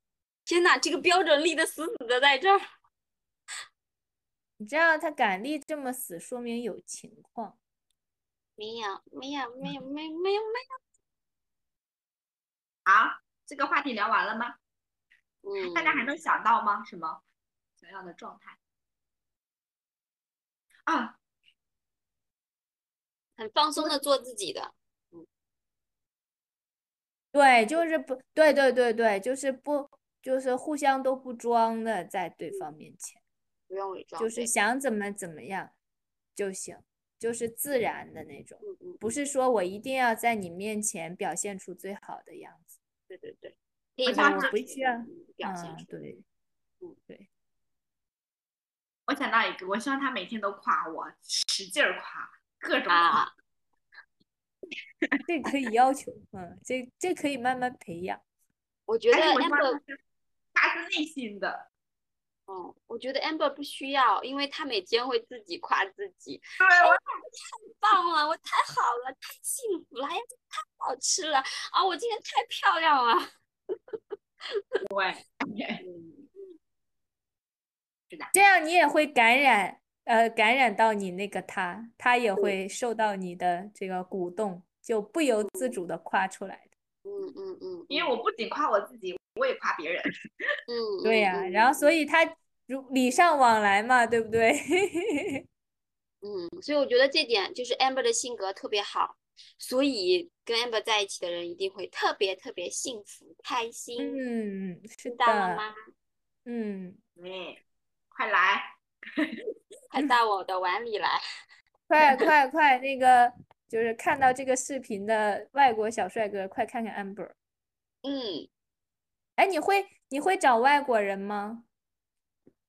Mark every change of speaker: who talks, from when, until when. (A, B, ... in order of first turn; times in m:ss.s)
0:00.5-0:02.6 A
0:04.6-0:07.6 B
0:08.6-0:10.8 A
0:12.9-0:14.6 C
0:15.4-0:16.1 A
0:15.6-0:17.2 C
0:17.8-0:18.6 C
0:20.9-0:21.2 C
0:23.4-0:25.3 A
0:27.3-0:33.2 B
0:33.7-0:34.5 A
0:34.2-0:35.7 B
0:36.4-0:42.7 B
0:38.6-0:39.1 A
0:43.1-0:45.9 A
0:44.1-0:44.6 C
0:44.1-0:46.2 B
0:49.1-0:53.3 C
0:52.9-0:53.3 A
0:55.2-0:58.2 B
0:58.9-0:59.8 A
0:59.1-1:00.0 C
1:00.5-1:01.7 C
1:02.5-1:13.3 A
1:06.6-1:07.0 C
1:14.9-1:15.8 C
1:15.8-1:16.3 A
1:18.3-1:26.7 B
1:25.4-1:25.8 A
1:27.0-1:28.1 A
1:27.9-1:30.1 C
1:30.7-1:32.0 A
1:31.0-1:35.4 B
1:36.2-1:44.2 A
1:44.0-1:45.6 B
1:45.1-1:45.8 A
1:46.5-1:47.0 B
1:47.2-1:47.6 C
1:48.1-1:49.4 C
1:49.9-1:51.2 A
1:51.9-1:57.3 B
1:58.0-1:58.5 A
1:59.4-2:01.7 B